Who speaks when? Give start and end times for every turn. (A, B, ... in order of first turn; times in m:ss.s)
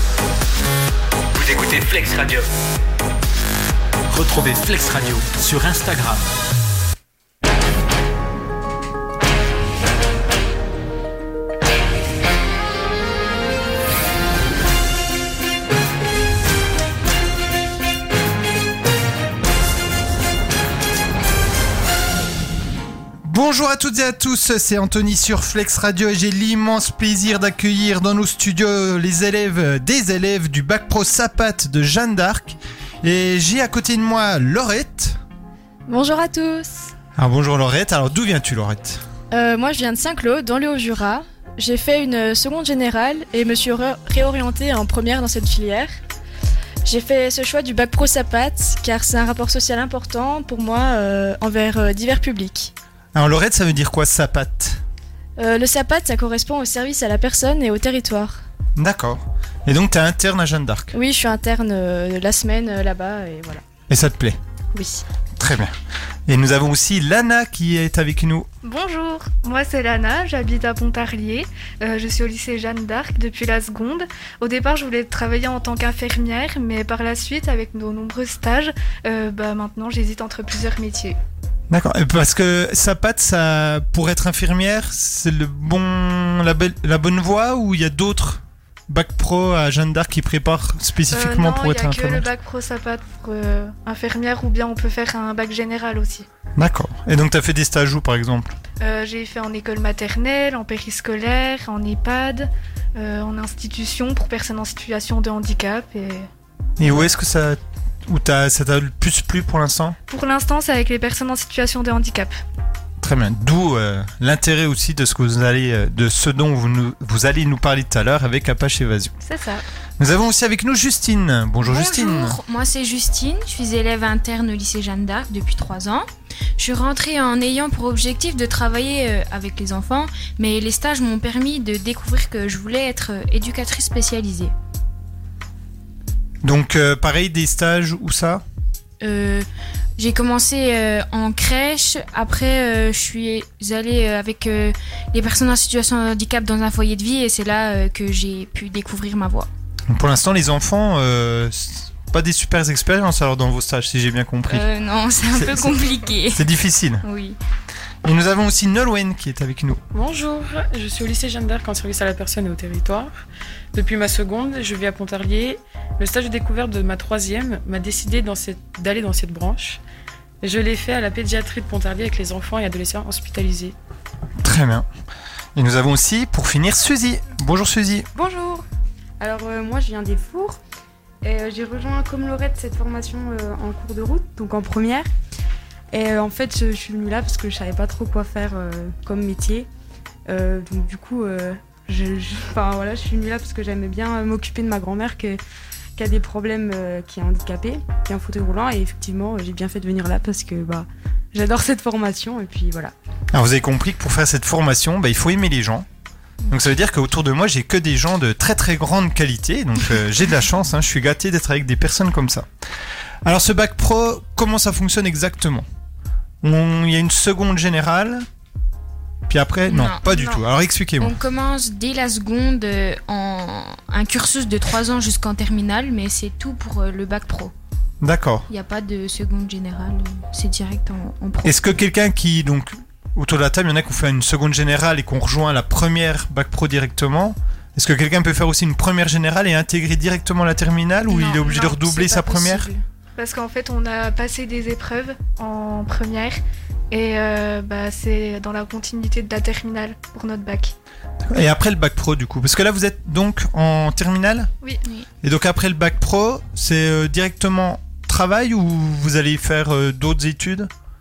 0:01.3-0:02.5 A
0:04.1-0:06.3 A
0:23.2-0:35.2 B
0:35.9-0:36.9 C
0:37.2-0:39.0 B
0:39.3-0:45.9 C
0:46.8-0:52.7 C
0:53.1-0:54.8 B
0:55.4-0:58.4 C
0:58.8-1:00.9 B
1:00.9-1:03.6 C
1:03.9-1:04.4 B
1:04.7-1:05.0 C
1:05.4-1:05.7 B
1:06.3-1:08.5 B
1:08.6-1:21.2 D
1:21.7-1:32.3 B
1:31.1-1:36.3 D
1:36.6-1:38.6 B
1:38.8-1:46.3 D
1:46.8-1:50.0 B
1:50.1-1:52.4 D
1:53.0-1:59.1 B
1:59.2-1:59.6 D
2:00.0-2:02.4 B
2:01.6-2:06.0 E
2:06.6-2:14.5 E
2:16.4-2:18.4 B
2:19.0-2:19.5 E
2:20.0-2:29.5 E
2:29.9-2:34.6 B
2:34.5-2:36.4 E
2:35.3-2:35.7 B
2:36.4-2:37.0 B
2:37.0-2:37.4 E
2:38.0-2:39.8 B
2:39.9-2:43.2 F
2:43.7-2:49.8 F
2:50.4-2:53.8 F
2:54.4-2:54.9 B
2:55.6-2:58.1 B
2:58.1-2:58.6 G
2:59.2-3:00.6 G
3:01.2-3:05.1 G
3:05.9-3:09.7 G
3:10.3-3:15.4 G
3:16.0-3:22.9 G
3:23.3-3:25.9 B
3:26.5-3:32.5 B
3:33.2-3:35.6 B
3:36.4-3:38.3 B
3:39.3-3:41.1 B
3:39.7-3:40.4 E
3:41.0-3:47.5 E
3:48.0-3:48.4 B
3:48.5-3:51.6 E
3:51.4-4:02.7 B
4:01.1-4:02.1 E
4:01.9-4:02.8 G
4:03.2-4:06.4 D
4:06.9-4:10.7 D
4:11.3-4:14.5 B
4:15.2-4:20.7 B